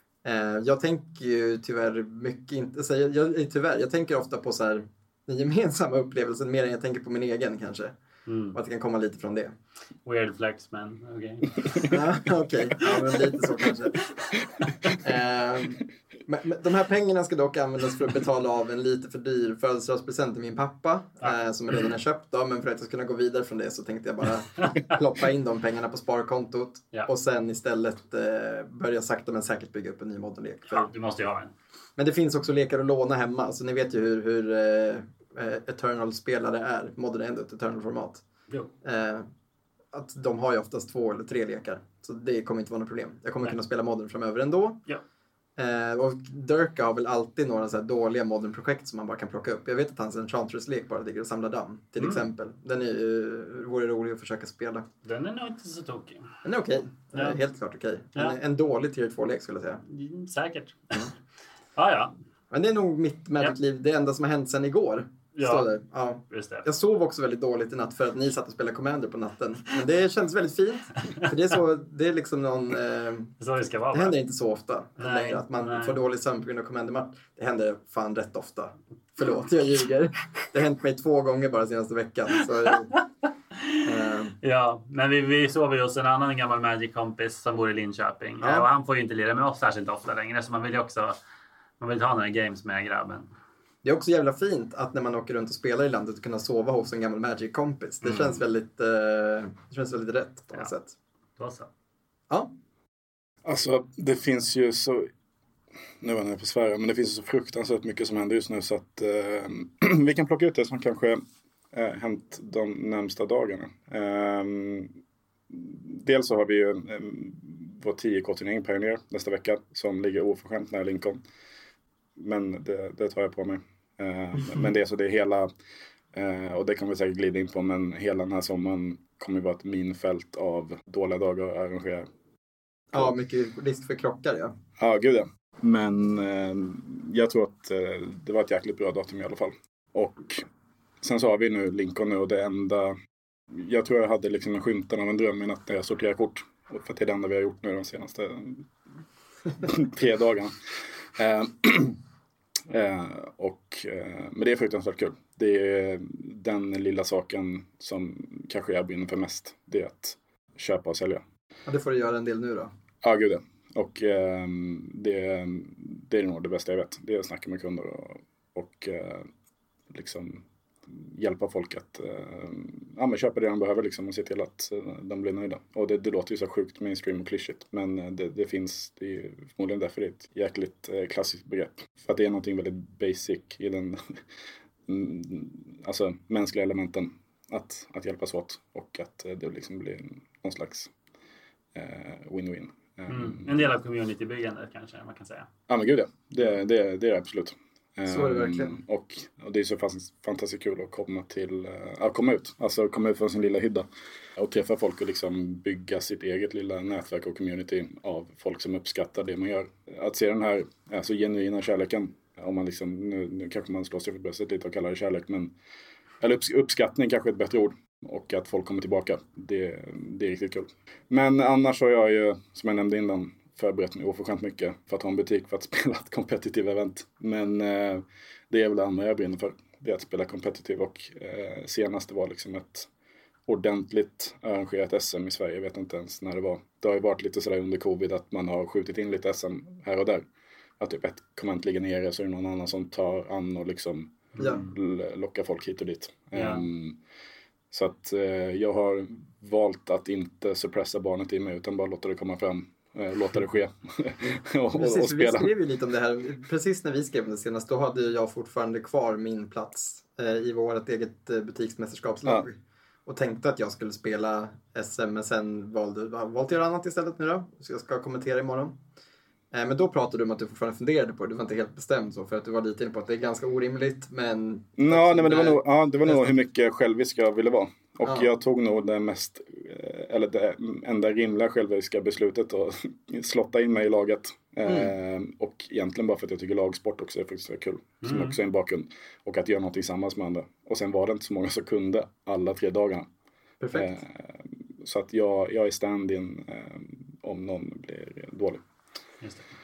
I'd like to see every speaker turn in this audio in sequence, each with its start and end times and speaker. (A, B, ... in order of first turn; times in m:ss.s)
0:00.2-0:07.9 A
0:08.3-0:08.6 B
0:08.5-0:09.5 A
0:10.0-0:11.9 B
0:11.8-0:14.0 A
0:15.0-0:30.9 A
0:30.7-0:31.5 B
0:32.0-0:38.2 A
0:38.8-0:39.3 A
0:39.9-0:44.8 A
0:45.6-0:54.9 A
0:52.0-0:52.3 B
0:55.0-0:56.3 B
0:56.4-0:59.8 A
0:57.1-0:57.4 B
0:59.9-1:01.1 B
1:01.8-1:02.1 B
1:02.5-1:13.3 A
1:05.4-1:05.7 B
1:06.3-1:06.7 B
1:13.4-1:14.2 B
1:13.9-1:23.0 A
1:15.0-1:16.0 B
1:23.8-1:24.4 A
1:24.4-1:31.2 B
1:28.4-1:28.7 A
1:31.8-1:33.3 B
1:33.8-1:41.0 A
1:41.4-1:41.7 B
1:43.4-1:45.1 C
1:46.0-1:54.9 C
1:55.5-2:01.2 C
2:02.2-2:05.5 C
2:06.1-2:12.1 C
2:12.9-2:14.5 A
2:14.8-2:20.4 C
2:21.0-2:22.9 C
2:23.5-2:28.7 C
2:29.6-2:32.0 C
2:32.7-2:41.2 C
2:41.7-2:42.7 A
2:43.0-2:49.3 C
2:49.9-3:04.2 C
3:04.9-3:10.9 C
3:11.7-3:13.7 C
3:13.1-3:15.5 B
3:15.7-3:35.5 C
3:18.1-3:18.7 A
3:36.2-3:52.9 C
3:53.5-4:00.2 C
4:00.8-4:07.0 C
4:04.4-4:04.6 A
4:04.4-4:04.7 B
4:06.4-4:06.7 B
4:07.7-4:15.5 C
4:14.7-4:28.8 A
4:29.5-4:36.4 A
4:34.8-4:53.1 C
4:38.0-4:38.3 A
4:44.7-4:44.9 A
4:48.0-4:48.4 B
4:53.6-4:54.0 A
4:53.7-4:58.6 C